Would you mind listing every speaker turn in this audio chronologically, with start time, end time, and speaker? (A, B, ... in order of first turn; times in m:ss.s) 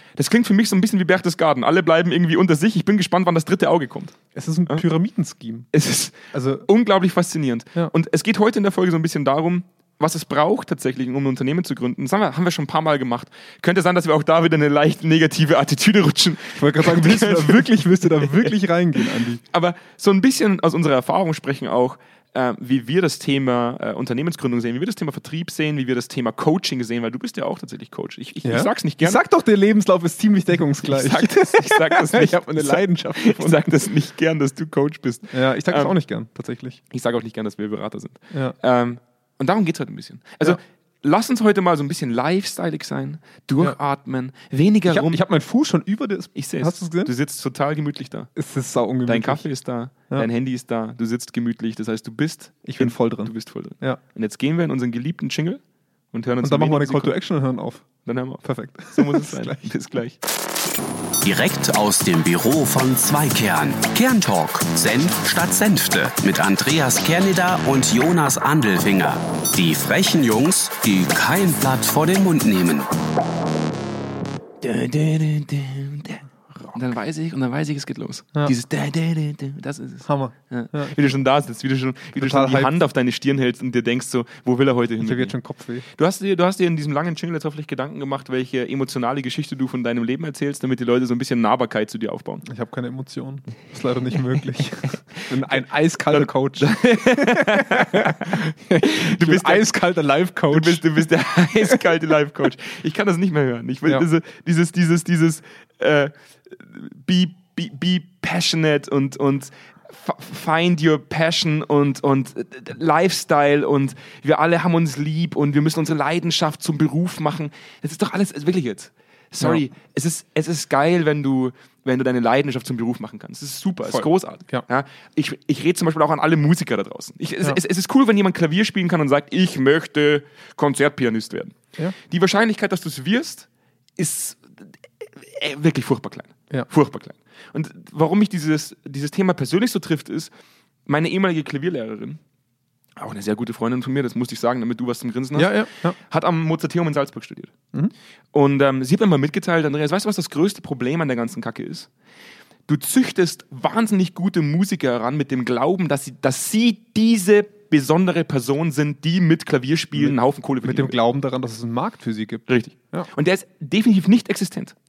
0:00.2-0:04.2 A
0:04.4-0:05.7 B
0:05.7-0:29.2 A
0:06.3-0:06.7 B
0:16.6-0:19.4 B
0:28.4-0:33.8 B
0:30.8-0:35.9 A
0:35.3-0:36.8 B
0:36.9-0:45.2 A
0:44.9-0:47.1 B
0:46.4-0:48.3 A
0:48.4-0:49.5 B
0:49.1-0:55.6 A
0:52.6-0:54.0 B
0:56.1-0:57.2 A
0:56.4-0:57.9 B
0:58.0-1:00.2 A
0:58.4-0:59.7 B
1:01.2-1:12.9 C
1:14.6-1:25.3 A
1:20.0-1:21.2 B
1:22.2-1:22.7 B
1:25.0-1:25.8 B
1:25.9-1:32.4 A
1:32.5-1:41.0 B
1:36.1-1:39.7 A
1:40.5-2:13.5 A
2:03.9-2:04.6 B
2:14.0-2:20.3 A
2:20.9-2:22.2 A
2:23.0-2:27.5 A
2:25.4-2:26.0 B
2:28.3-2:31.9 A
2:32.7-2:41.0 A
2:39.9-2:43.1 B
2:42.5-2:44.8 A